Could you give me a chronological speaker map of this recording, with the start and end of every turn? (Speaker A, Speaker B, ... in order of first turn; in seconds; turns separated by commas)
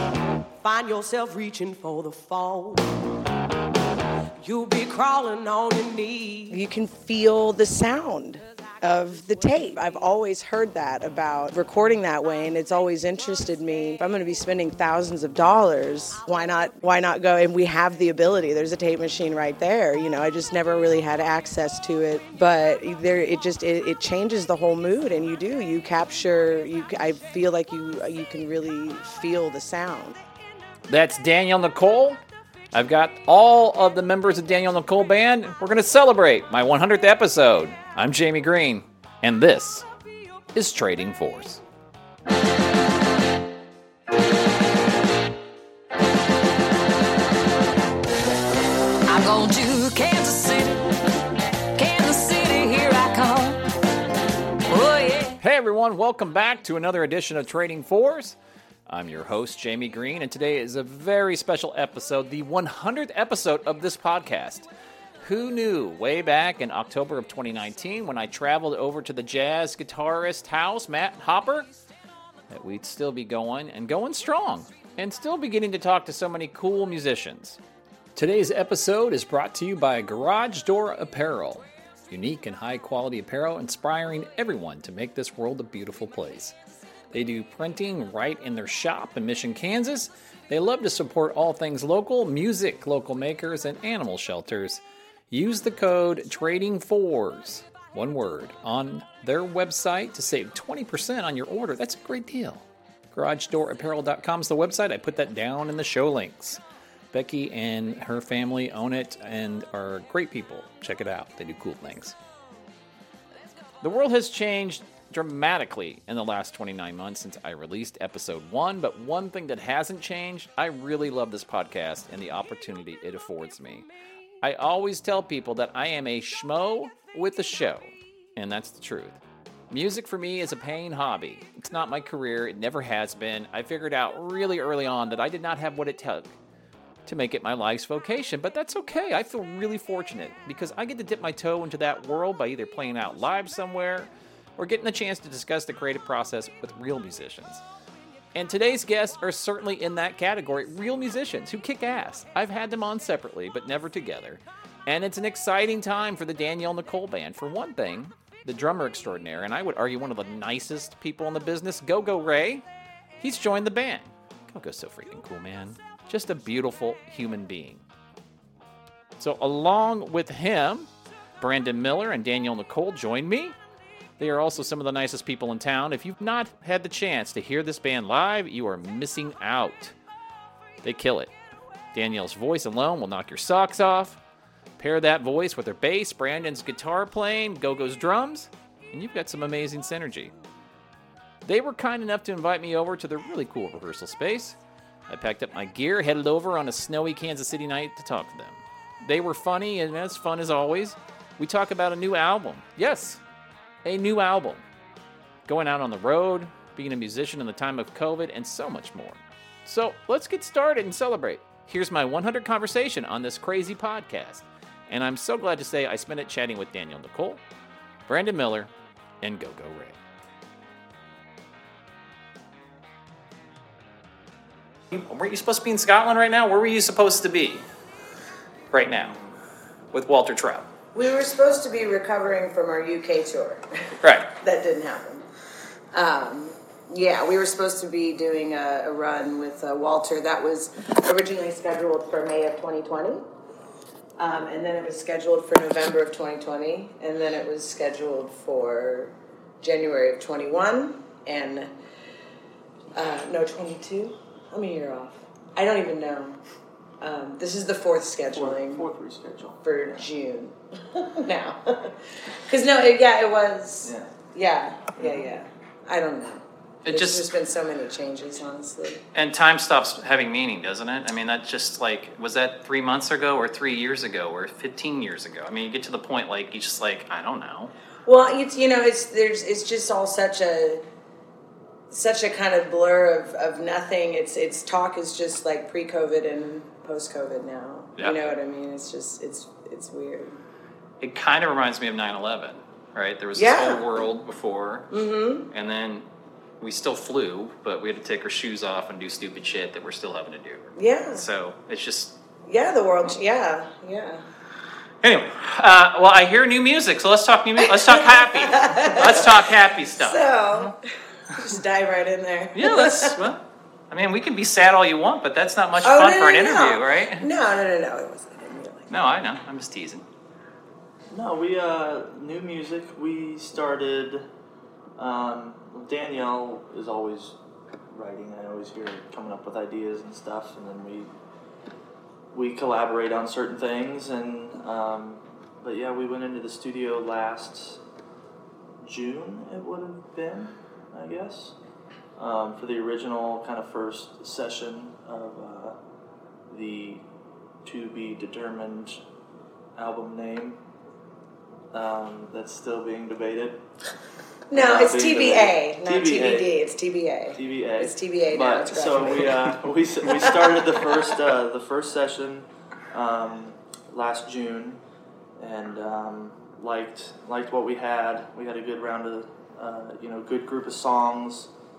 Speaker A: 0.6-3.0, Speaker A: 4.4-6.6, Speaker B: 6.5-30.2, Speaker C: 30.9-32.2, Speaker C: 32.7-39.9, Speaker C: 40.5-41.6, Speaker D: 49.1-51.0, Speaker D: 51.8-53.6, Speaker D: 54.7-55.4, Speaker C: 55.4-58.4, Speaker C: 58.9-64.7, Speaker C: 65.2-71.7, Speaker C: 72.5-77.6, Speaker C: 78.2-86.5, Speaker C: 87.1-106.6, Speaker C: 107.1-112.2, Speaker C: 113.8-123.9, Speaker C: 124.4-136.3, Speaker C: 137.1-147.6, Speaker C: 148.3-162.6, Speaker C: 163.2-167.8, Speaker C: 169.2-170.9, Speaker C: 171.4-173.6, Speaker C: 174.2-179.9, Speaker C: 180.8-181.3, Speaker C: 181.9-184.2, Speaker C: 184.8-190.3, Speaker C: 191.4-194.6, Speaker C: 195.1-203.2, Speaker C: 203.8-204.6, Speaker C: 205.5-217.4, Speaker C: 218.1-218.7, Speaker C: 219.2-220.0, Speaker C: 224.9-227.6, Speaker C: 228.7-229.2, Speaker E: 228.9-229.3, Speaker C: 229.9-230.7, Speaker B: 230.9-235.3, Speaker C: 234.0-234.3, Speaker B: 235.9-243.3, Speaker B: 244.2-251.7, Speaker B: 252.9-256.4, Speaker B: 257.0-258.9, Speaker E: 258.3-260.1, Speaker B: 259.6-269.0, Speaker E: 263.8-264.1, Speaker E: 265.0-265.3, Speaker C: 266.9-267.3, Speaker C: 269.1-277.7, Speaker B: 278.1-280.8, Speaker B: 281.9-290.4, Speaker C: 291.0-294.9, Speaker B: 293.4-293.8, Speaker B: 294.9-295.5, Speaker C: 295.5-296.1, Speaker C: 296.6-302.2, Speaker B: 300.8-301.2, Speaker B: 302.5-304.2, Speaker C: 305.0-310.7, Speaker B: 307.7-309.5, Speaker B: 310.0-313.2, Speaker C: 312.6-317.2, Speaker B: 315.8-318.9, Speaker C: 318.9-320.0, Speaker E: 321.1-324.3, Speaker E: 325.0-327.4, Speaker E: 327.9-331.1, Speaker E: 332.3-337.8, Speaker E: 338.8-341.6, Speaker E: 342.2-345.8, Speaker E: 346.5-347.1, Speaker E: 347.6-349.0, Speaker E: 349.8-350.6, Speaker E: 351.7-353.6, Speaker B: 354.5-359.4, Speaker E: 354.5-356.5, Speaker E: 357.4-364.8, Speaker E: 365.4-371.5